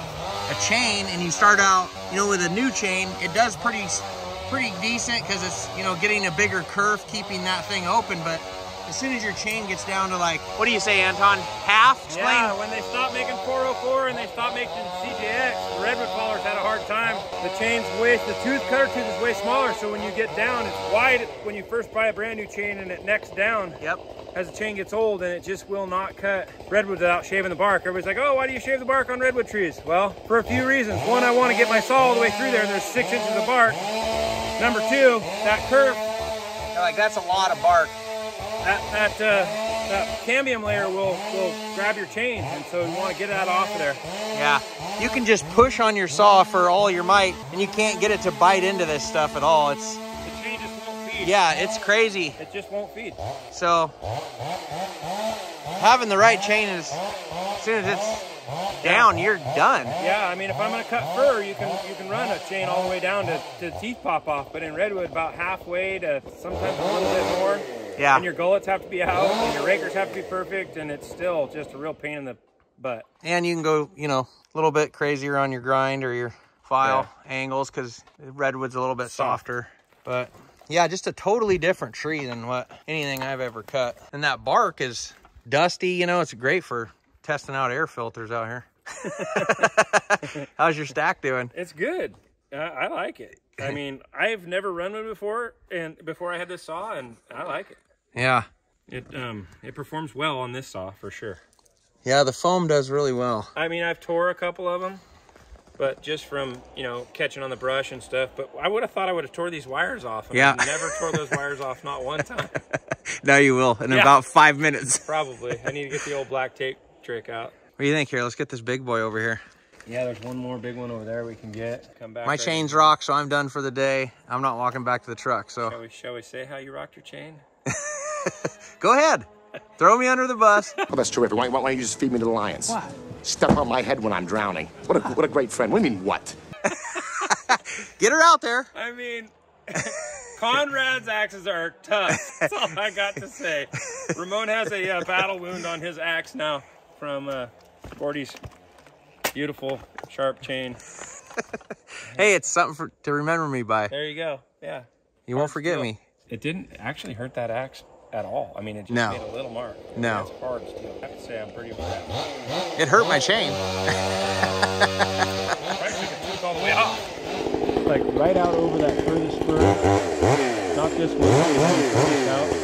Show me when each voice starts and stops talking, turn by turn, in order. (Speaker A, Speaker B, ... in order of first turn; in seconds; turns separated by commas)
Speaker A: 0.5-12.6, Speaker B: 12.1-23.8, Speaker B: 24.3-33.8, Speaker B: 34.6-36.1, Speaker A: 36.7-38.0, Speaker B: 38.6-44.0, Speaker A: 44.3-50.0, Speaker B: 50.2-51.4, Speaker A: 51.2-52.4, Speaker B: 52.4-53.2, Speaker A: 53.5-53.9, Speaker A: 55.8-57.0, Speaker A: 57.6-58.3, Speaker A: 58.8-60.0, Speaker B: 58.8-59.1, Speaker B: 60.0-73.1, Speaker A: 68.0-68.3, Speaker A: 73.2-91.5, Speaker B: 76.8-77.1, Speaker B: 79.1-79.4, Speaker B: 89.0-90.4, Speaker B: 91.5-97.8, Speaker A: 98.2-98.5, Speaker B: 98.9-101.4, Speaker A: 102.0-103.5, Speaker B: 103.6-105.0, Speaker B: 105.8-112.6, Speaker A: 110.3-111.3, Speaker A: 113.1-115.1, Speaker B: 115.0-117.5, Speaker A: 117.8-119.4, Speaker B: 119.9-122.9, Speaker A: 122.2-125.8, Speaker B: 125.7-127.4, Speaker A: 127.7-129.3, Speaker A: 129.8-130.7, Speaker C: 130.9-136.4, Speaker A: 137.3-138.7, Speaker B: 138.7-148.4, Speaker A: 142.1-142.5, Speaker B: 149.3-150.8, Speaker A: 152.2-153.9, Speaker B: 153.9-162.2, Speaker A: 155.3-156.0, Speaker A: 158.9-159.2, Speaker A: 159.9-160.3, Speaker A: 162.8-163.6, Speaker B: 165.8-167.1, Speaker B: 167.9-169.8, Speaker B: 170.7-172.5